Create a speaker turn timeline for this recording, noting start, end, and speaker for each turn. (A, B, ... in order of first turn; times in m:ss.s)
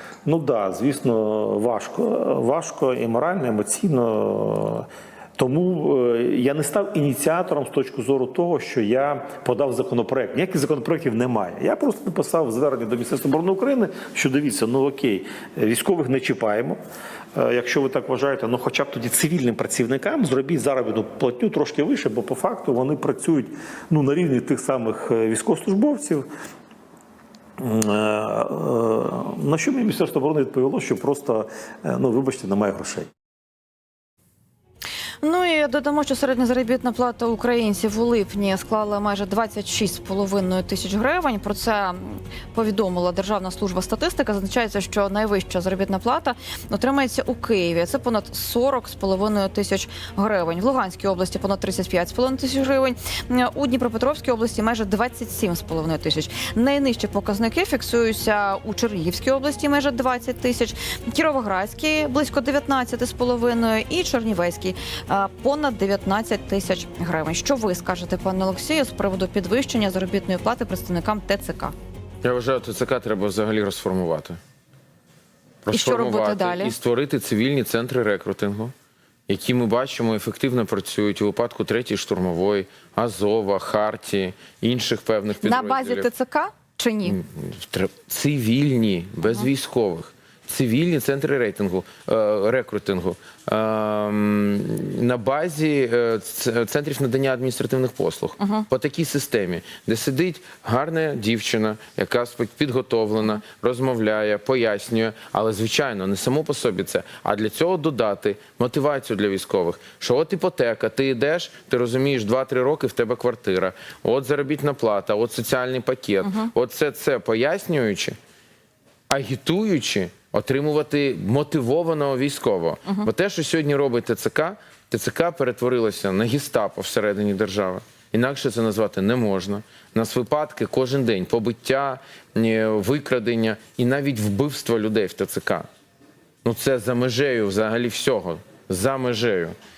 0:00.2-0:16.8 A
0:17.3-0:26.3 A
0:27.6-0:33.1 A
0:35.2-1:11.7 B
1:12.2-1:14.4 C
1:15.6-1:18.7 C
1:15.7-1:16.7 B
1:19.3-1:26.1 C
1:25.4-1:27.2 B
1:27.0-1:58.2 C
1:38.4-1:38.6 B
1:56.2-1:56.5 B
1:59.1-2:15.7 C
2:16.4-2:19.6 C